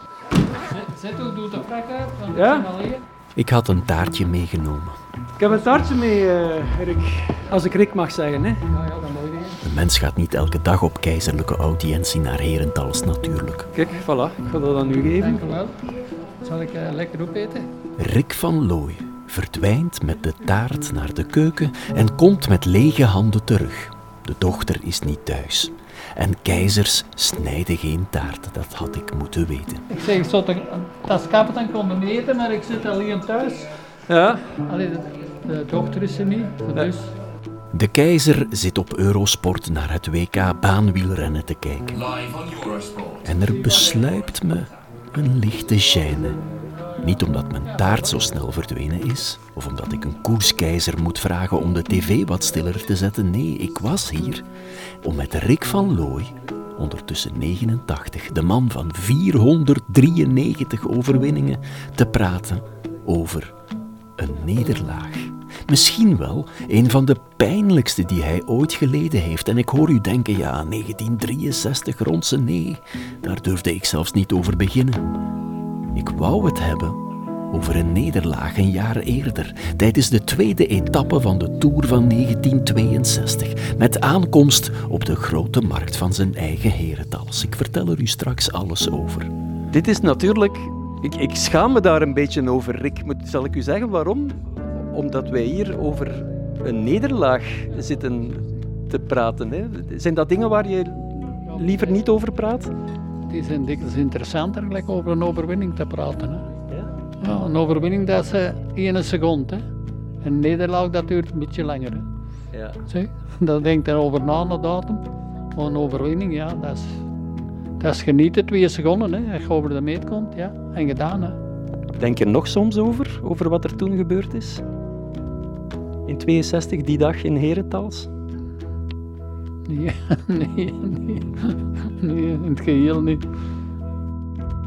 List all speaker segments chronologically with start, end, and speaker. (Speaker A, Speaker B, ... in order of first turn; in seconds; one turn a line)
Speaker A: 0.6-3.0
Speaker B: 2.3-2.7
Speaker C: 3.4-5.0
Speaker B: 5.4-8.6
Speaker A: 8.7-9.6
Speaker C: 9.6-13.7
Speaker B: 13.7-15.6
Speaker A: 15.2-15.8
Speaker A: 16.4-17.7
Speaker C: 18.0-29.9
Speaker A: 29.9-33.7
Speaker B: 34.1-34.5
Speaker A: 34.6-37.1
Speaker C: 37.7-42.2
Speaker C: 43.2-46.4
Speaker C: 47.0-54.5
Speaker C: 55.0-63.5
Speaker C: 64.2-75.2
Speaker C: 76.0-77.0
Speaker C: 77.5-89.3
Speaker B: 89.7-102.7
Speaker A: 103.3-106.5
Speaker A: 107.2-109.7
Speaker A: 110.2-112.1
Speaker B: 112.5-112.8
Speaker A: 112.9-115.0
Speaker A: 115.5-117.0
Speaker A: 117.8-121.4
Speaker B: 122.0-124.6
Speaker B: 126.1-128.1
Speaker A: 129.7-133.2